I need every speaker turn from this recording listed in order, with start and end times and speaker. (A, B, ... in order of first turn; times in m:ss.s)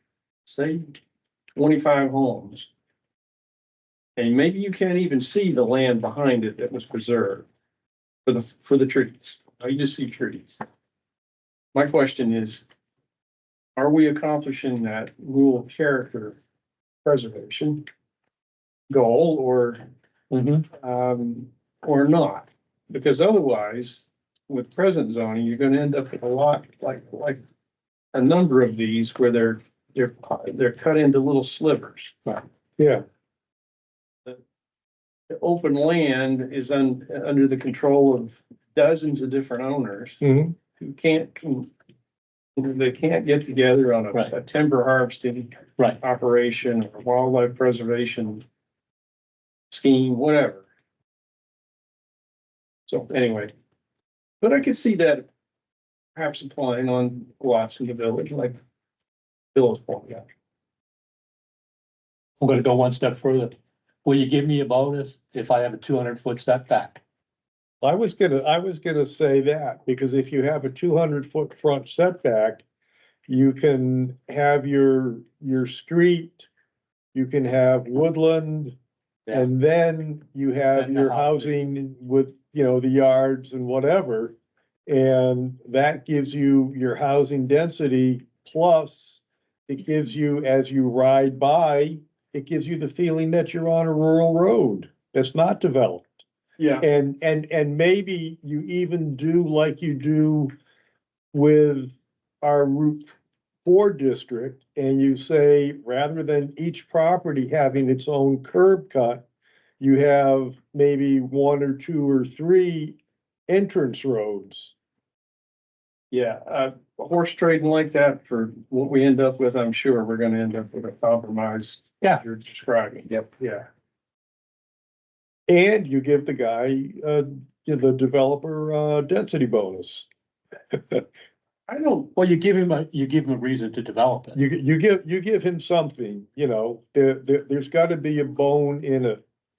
0:00.4-0:01.0 A
0:01.5-0:02.7 A
0:04.2-0:07.5 A
0:08.2-0:10.6 A
0:11.7-0:12.6 A
0:13.8-0:16.4 A
0:17.0-0:17.8 A
0:18.9-0:19.8 A
0:20.3-0:20.6 B
0:20.8-0:27.4 A
0:28.1-0:32.2 A
0:32.8-0:33.0 C
0:35.3-0:40.2 A
0:40.2-0:40.6 C
0:40.8-0:41.7 A
0:42.6-0:48.4 A
0:49.7-0:50.6 A
0:52.8-0:53.5 A
0:54.4-0:55.3 A
0:56.1-0:58.6 A
0:59.5-1:00.3 A
1:02.4-1:07.0 B
1:07.8-1:12.6 C
1:13.3-1:16.5 C
1:17.1-1:18.8 C
1:19.3-1:24.3 C
1:20.7-1:21.5 B
1:24.9-1:36.1 C
1:36.6-1:36.8 A
1:36.8-1:40.5 C
1:41.3-1:43.1 C
1:43.6-1:49.2 C
1:49.8-1:53.0 C
1:53.5-1:54.7 C
1:56.1-2:03.7 A
2:05.5-2:10.1 C
2:10.7-2:11.0 C
2:11.7-2:12.1 A
2:12.2-2:14.4 B
2:14.3-2:19.2 C